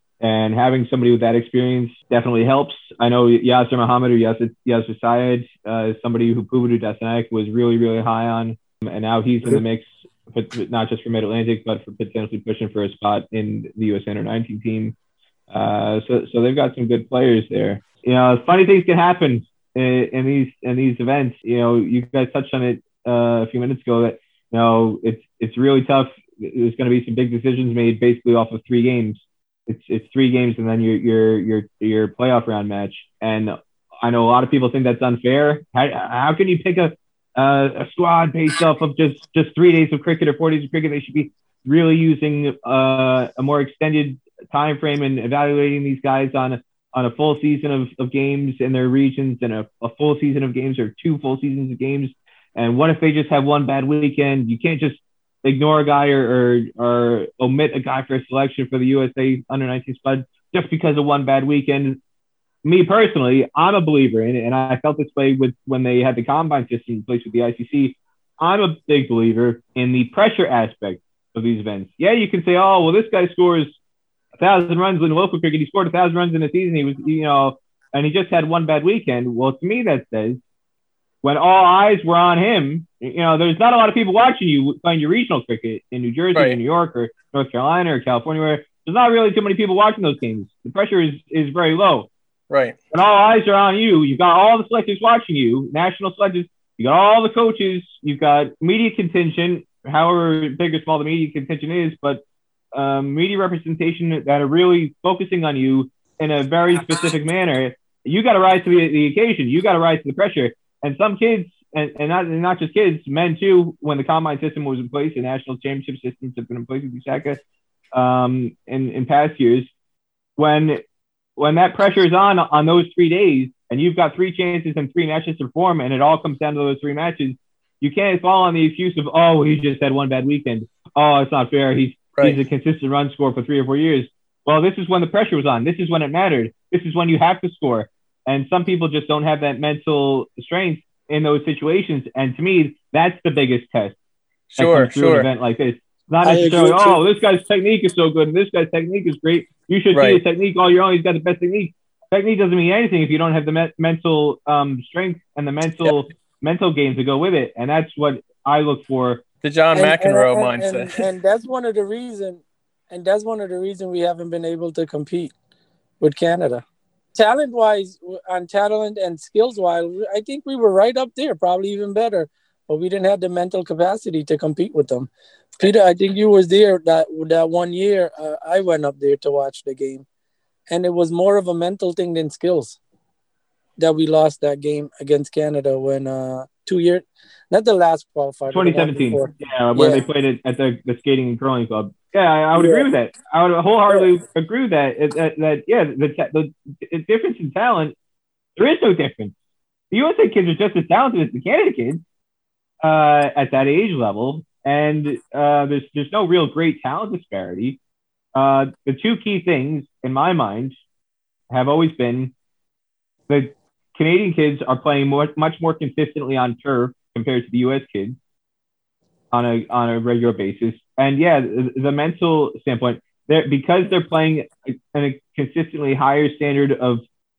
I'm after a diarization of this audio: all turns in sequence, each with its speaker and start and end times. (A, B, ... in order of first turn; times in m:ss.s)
0:00.2-0:15.0 A
0:15.5-1:02.0 A
1:02.6-1:13.8 A
1:14.4-1:20.4 A
1:21.2-1:32.1 A
1:26.3-1:26.6 B
1:32.5-1:32.8 B
1:32.9-1:42.2 A
1:42.7-1:57.4 A
1:57.9-1:59.7 A
2:00.4-2:00.8 A
2:01.4-2:24.0 A
2:24.5-2:25.3 B
2:24.6-2:39.2 A
2:26.2-2:27.0 C
2:29.9-2:30.2 B
2:39.4-2:41.0 B
2:39.7-2:45.3 C
2:46.0-2:46.6 C
2:47.1-3:00.0 C
3:00.7-3:02.8 C
3:03.8-3:10.0 C
3:08.5-3:17.9 A
3:12.5-3:12.9 C
3:18.6-3:19.3 A
3:19.9-3:22.0 A
3:22.8-3:27.8 A
3:28.3-3:30.8 A
3:31.5-3:32.3 A
3:33.3-3:38.2 A
3:39.3-3:47.0 A